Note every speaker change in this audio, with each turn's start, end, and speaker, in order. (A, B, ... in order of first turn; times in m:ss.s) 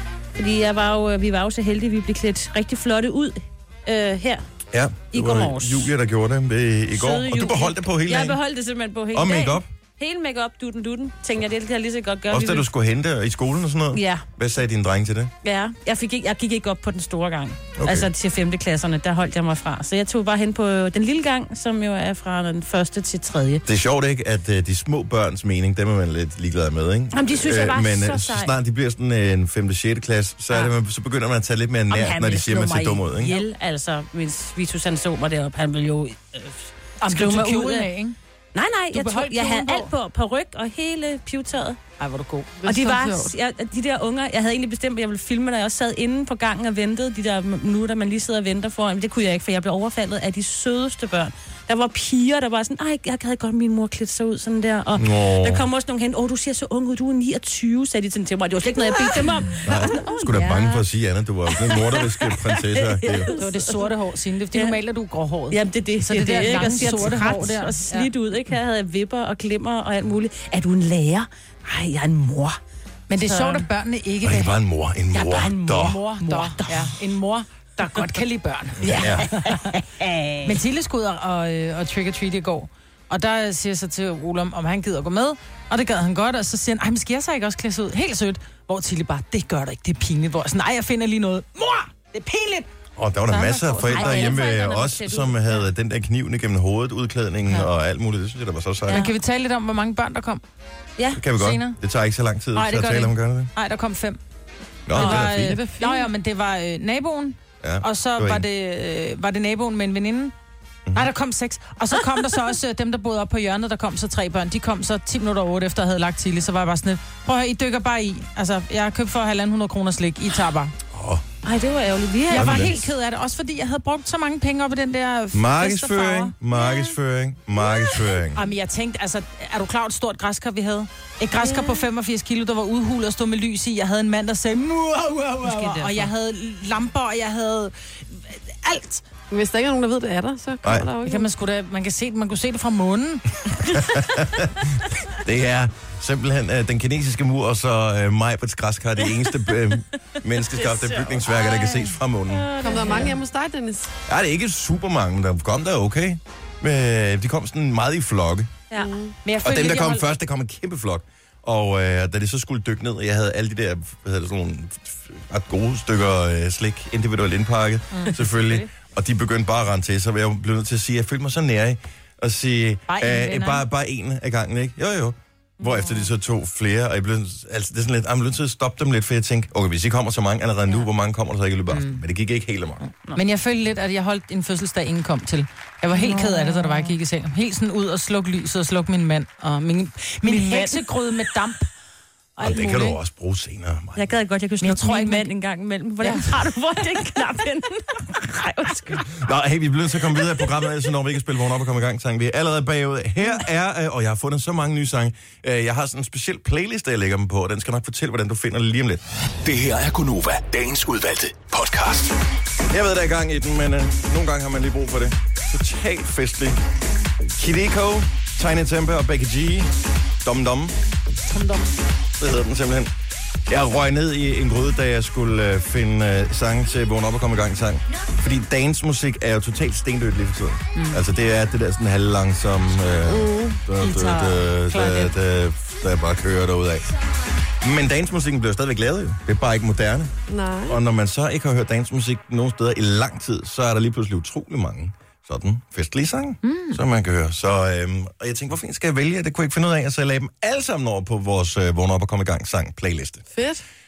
0:00.4-0:04.4 A
0:04.7-0:08.4 B
0:05.1-0:05.9 A
0:06.9-0:12.6 A
0:09.1-0:09.7 B
0:12.3-0:15.3 B
0:13.9-0:14.2 A
0:15.4-0:23.6 A
0:17.8-0:18.1 B
0:23.6-0:33.4 B
0:27.1-0:28.5 A
0:31.9-0:37.9 A
0:37.0-0:38.2 C
0:38.5-0:41.8 A
0:38.9-0:39.9 C
0:42.0-0:42.5 C
0:42.6-0:43.3 D
0:42.6-1:00.8 A
0:54.9-0:55.7 B
0:59.6-1:03.3 B
1:01.5-1:03.9 A
1:03.3-1:08.1 C
1:04.5-1:04.8 A
1:05.5-1:12.6 A
1:13.1-1:14.5 C
1:13.2-1:13.7 A
1:14.2-1:16.0 B
1:15.1-1:17.0 A
1:15.6-1:19.7 C
1:18.8-1:19.3 B
1:18.8-1:20.6 A
1:20.4-1:32.7 C
1:33.0-1:39.0 B
1:33.3-1:34.4 C
1:33.8-1:35.7 A
1:38.8-1:39.1 A
1:38.9-1:40.4 C
1:41.1-1:43.5 B
1:41.4-1:41.8 C
1:42.5-1:44.2 C
1:44.8-1:45.6 B
1:44.9-1:45.2 A
1:44.9-1:50.3 C
1:45.2-1:46.1 D
1:47.6-1:48.4 B
1:50.9-2:00.7 C
2:00.9-2:01.2 B
2:01.4-2:02.8 A
2:02.3-2:06.3 C
2:02.3-2:02.9 B
2:05.3-2:08.4 B
2:06.6-2:06.9 A
2:08.3-2:19.0 C
2:11.4-2:11.7 D
2:15.4-2:16.1 A
2:19.3-2:21.3 D
2:20.6-2:20.9 B
2:21.0-2:24.1 C
2:23.7-2:32.5 B
2:30.5-2:33.1 A
2:32.6-2:33.9 D
2:34.1-2:38.5 B
2:38.8-2:39.1 D
2:39.2-2:40.0 C
2:39.4-3:02.8 B
2:47.9-2:48.6 C
2:52.9-2:53.6 C
2:55.6-2:56.1 A
3:01.7-3:02.0 C
3:03.1-3:11.7 C
3:05.9-3:06.9 A
3:10.2-3:10.8 A
3:12.4-3:13.0 C
3:12.4-3:14.0 B
3:14.0-3:19.2 A
3:14.6-3:15.2 C
3:16.0-3:16.3 C
3:19.2-3:29.0 B
3:20.2-3:20.5 A
3:29.4-3:32.2 E
3:32.7-3:36.6 B
3:37.4-3:39.7 B
3:40.2-3:40.8 B
3:41.3-3:41.7 C
3:42.2-3:42.9 B
3:43.5-3:56.9 B
3:50.7-3:51.0 C
3:53.1-3:53.6 D
3:53.8-3:55.1 C
3:57.6-4:00.1 B
4:00.3-4:00.8 D
4:00.6-4:13.2 B
4:06.4-4:06.8 C
4:13.3-4:13.6 D